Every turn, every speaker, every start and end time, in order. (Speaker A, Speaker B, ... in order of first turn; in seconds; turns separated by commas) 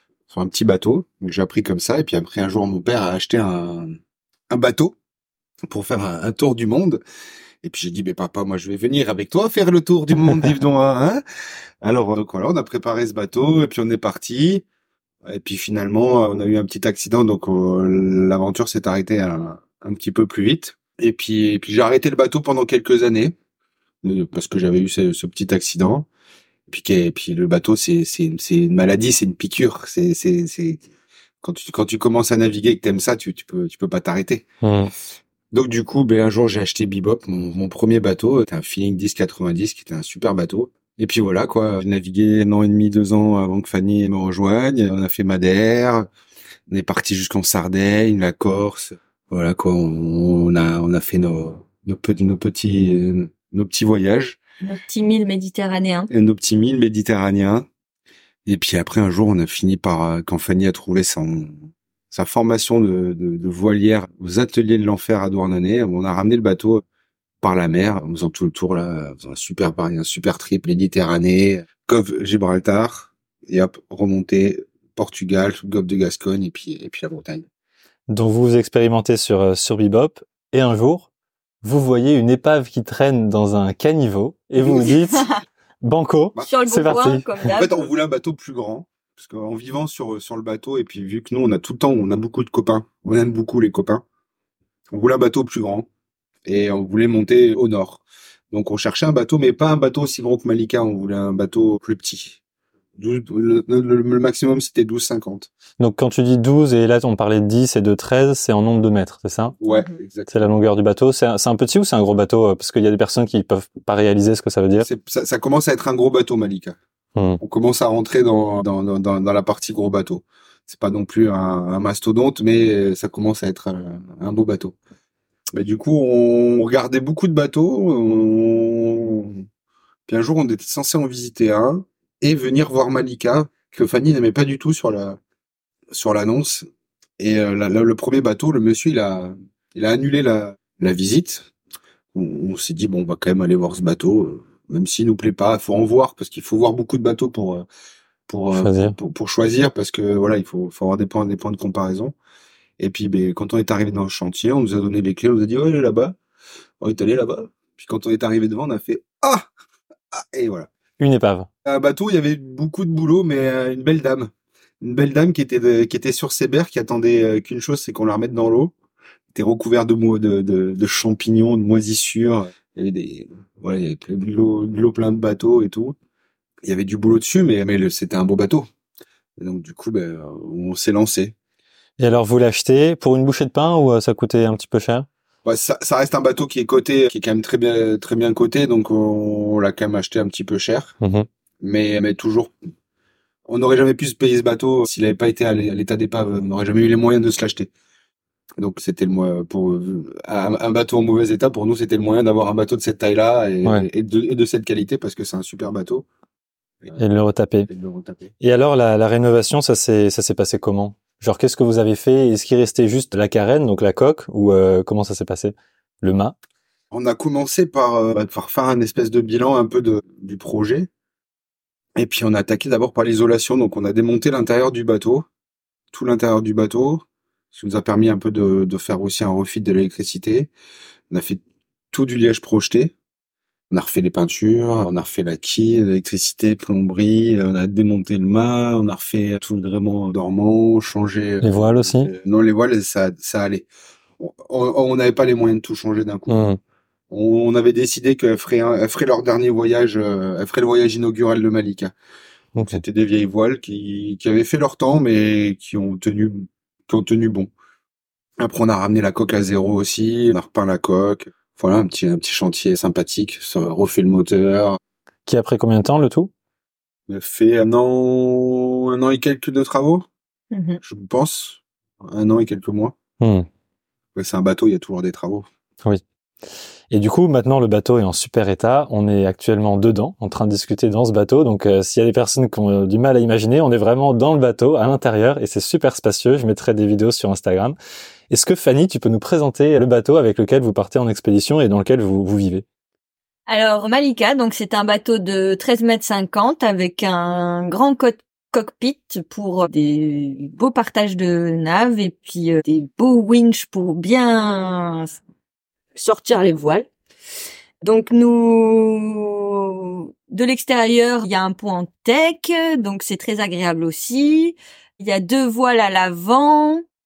Speaker A: 0.3-4.0, Speaker A: 4.5-5.0, Speaker A: 5.7-7.0, Speaker A: 7.6-11.2, Speaker A: 11.8-14.6, Speaker A: 15.2-23.4, Speaker A: 24.0-26.1, Speaker A: 26.7-30.8, Speaker A: 31.4-34.5, Speaker B: 34.6-34.9, Speaker A: 35.5-46.1, Speaker A: 46.7-54.4, Speaker C: 54.6-56.1, Speaker A: 56.1-57.7, Speaker A: 58.5-66.8, Speaker A: 67.4-77.5, Speaker B: 78.1-81.1, Speaker B: 81.6-85.2, Speaker C: 84.8-85.4, Speaker B: 85.8-87.3, Speaker C: 86.4-87.9, Speaker A: 87.5-94.0, Speaker A: 94.9-95.9, Speaker A: 96.5-102.4, Speaker A: 103.0-105.5, Speaker B: 105.8-109.5, Speaker A: 109.6-110.4, Speaker C: 109.6-109.9, Speaker B: 110.3-114.9, Speaker A: 114.8-116.8, Speaker B: 117.2-117.4, Speaker A: 117.4-124.8, Speaker A: 125.5-129.4, Speaker A: 130.1-135.2, Speaker A: 135.9-136.7, Speaker A: 137.2-141.5, Speaker A: 142.1-147.7, Speaker A: 148.3-152.1, Speaker B: 148.5-148.9, Speaker A: 152.8-156.2, Speaker A: 156.8-159.4, Speaker A: 160.1-160.7, Speaker B: 161.0-161.5, Speaker A: 161.6-168.7, Speaker A: 169.3-176.0, Speaker A: 176.6-178.7, Speaker A: 179.4-181.3, Speaker B: 182.0-185.1, Speaker A: 185.4-190.9, Speaker B: 191.0-191.3, Speaker A: 191.6-192.5, Speaker A: 193.4-197.7, Speaker A: 198.6-206.1, Speaker B: 207.0-207.7, Speaker A: 207.7-208.3, Speaker B: 208.4-216.3, Speaker A: 216.9-220.9, Speaker A: 222.0-225.3, Speaker A: 225.9-230.5, Speaker A: 231.1-231.4, Speaker A: 231.9-232.9, Speaker A: 233.7-243.7, Speaker B: 241.4-242.1, Speaker A: 244.2-246.4, Speaker B: 246.3-246.6, Speaker A: 247.1-251.9, Speaker B: 252.5-252.8, Speaker A: 252.7-257.5, Speaker A: 258.4-264.8, Speaker B: 265.2-266.3, Speaker A: 267.1-270.1, Speaker C: 270.5-270.8, Speaker A: 270.8-272.9, Speaker B: 273.2-273.5, Speaker A: 274.1-275.4, Speaker B: 276.9-287.8, Speaker B: 288.3-292.6, Speaker C: 293.5-305.1, Speaker C: 305.9-306.9, Speaker C: 307.8-316.8